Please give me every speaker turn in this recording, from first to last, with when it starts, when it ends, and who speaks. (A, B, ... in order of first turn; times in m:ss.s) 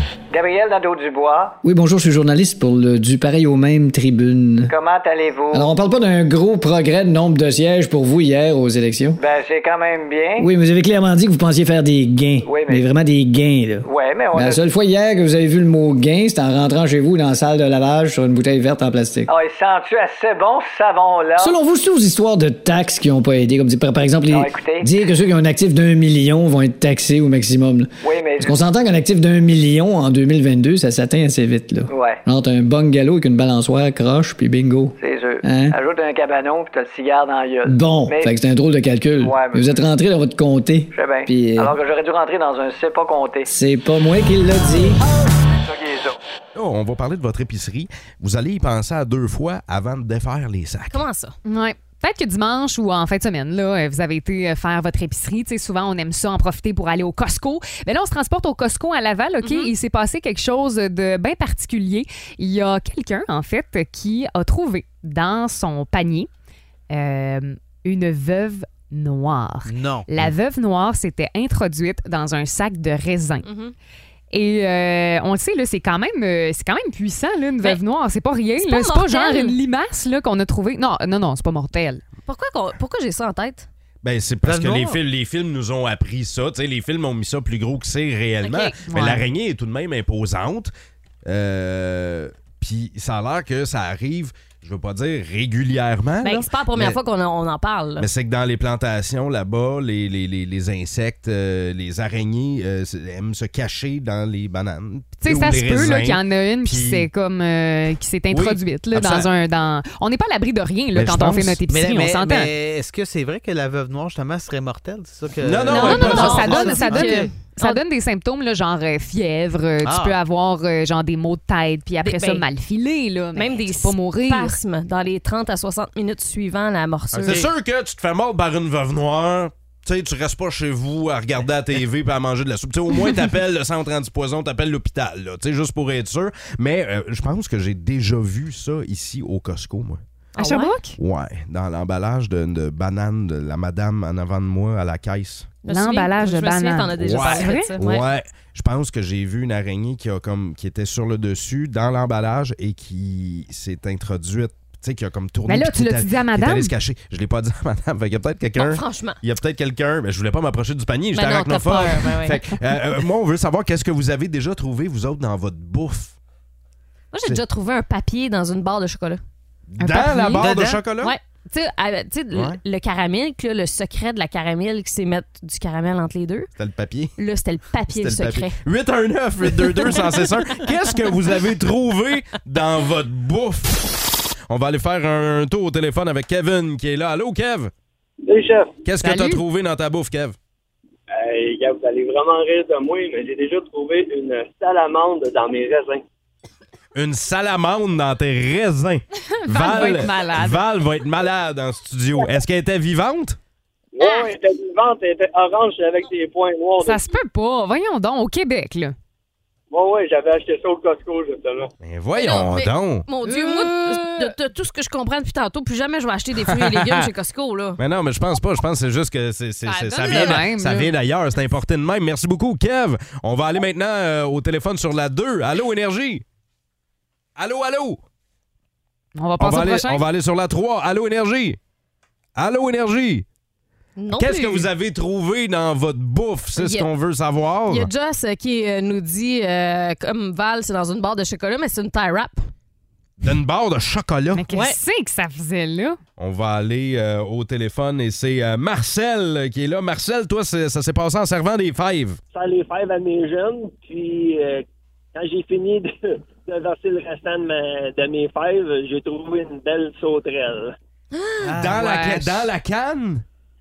0:00.3-0:01.6 A
0:01.6-0:04.7 B
0:04.7-0:05.7 A
0:05.5-0:09.2 B
0:09.2-0:10.5 A
0:10.4-0:19.3 B
0:12.4-0:12.8 A
0:13.8-0:14.6 A
0:19.3-0:21.5 A
0:21.4-0:35.8 B
0:24.3-0:24.9 A
0:28.0-0:28.6 A
0:31.9-0:32.2 A
0:35.0-0:38.3 A
0:37.6-0:41.7 B
0:39.2-0:39.7 A
0:40.9-0:43.5 A
0:43.4-0:45.0 B
0:45.6-0:46.2 A
0:46.6-0:51.0 C
0:50.9-0:51.4 D
0:51.4-1:06.3 E
0:59.4-0:59.7 D
1:06.9-1:13.5 E
1:09.6-1:10.1 F
1:13.4-1:13.7 D
1:14.3-1:22.0 E
1:18.6-1:19.6 D
1:22.2-1:23.7 D
1:24.0-1:30.7 C
1:24.4-1:25.0 F
1:28.4-1:28.8 D
1:28.8-1:29.2 E
1:31.2-1:37.0 C
1:36.2-1:38.1 D
1:38.0-1:47.1 C
1:45.2-1:52.5 E
1:48.3-1:49.3 C
1:50.9-1:51.6 C
1:51.7-1:57.3 F
1:55.4-1:56.7 C
1:55.7-1:57.8 D
1:55.7-2:04.6 E
1:59.8-2:00.2 F
2:02.0-2:02.4 D
2:03.4-2:07.4 D
2:07.1-2:07.5 F
2:07.2-2:20.0 C
2:20.4-2:20.8 D
2:20.4-2:21.0 E
2:21.0-2:25.5 C
2:25.6-2:28.1 D
2:25.7-2:27.7 E
2:27.0-2:46.1 C
2:35.5-2:36.7 E
2:38.6-2:39.2 D
2:41.1-2:42.5 D
2:47.1-2:49.2 D
2:49.7-2:51.1 C
2:49.8-2:50.5 E
2:50.4-2:50.9 F
2:50.4-2:56.5 D
2:52.3-2:52.6 C
2:56.6-2:57.2 C
2:57.2-2:58.6 D
2:57.9-3:07.7 C
2:59.5-3:00.3 D
3:08.2-3:08.7 G
3:08.8-3:10.4 C
3:09.0-3:09.4 E
3:11.1-3:16.0 G
3:16.9-3:23.4 C
3:19.4-3:20.6 E
3:23.9-3:27.0 G
3:26.8-3:29.0 E
3:29.7-3:31.7 G
3:31.8-3:33.1 C
3:32.1-3:37.8 D
3:33.2-3:34.3 E
3:36.5-3:37.1 C
3:37.8-3:46.2 C
3:39.7-3:40.4 D
3:39.8-3:40.9 E
3:47.4-3:48.0 C
3:49.2-3:50.0 E
3:49.4-3:51.6 C
3:52.4-3:53.2 C
3:54.0-3:54.7 D
3:54.1-3:57.9 C
3:56.6-3:56.9 D
3:57.7-4:02.5 D
4:03.2-4:04.4 C
4:04.3-4:06.0 E
4:04.5-4:04.8 D
4:06.2-4:12.2 C
4:12.3-4:20.8 G
4:21.1-4:21.5 D
4:21.4-4:21.9 F
4:21.4-4:23.2 C
4:21.7-4:22.5 E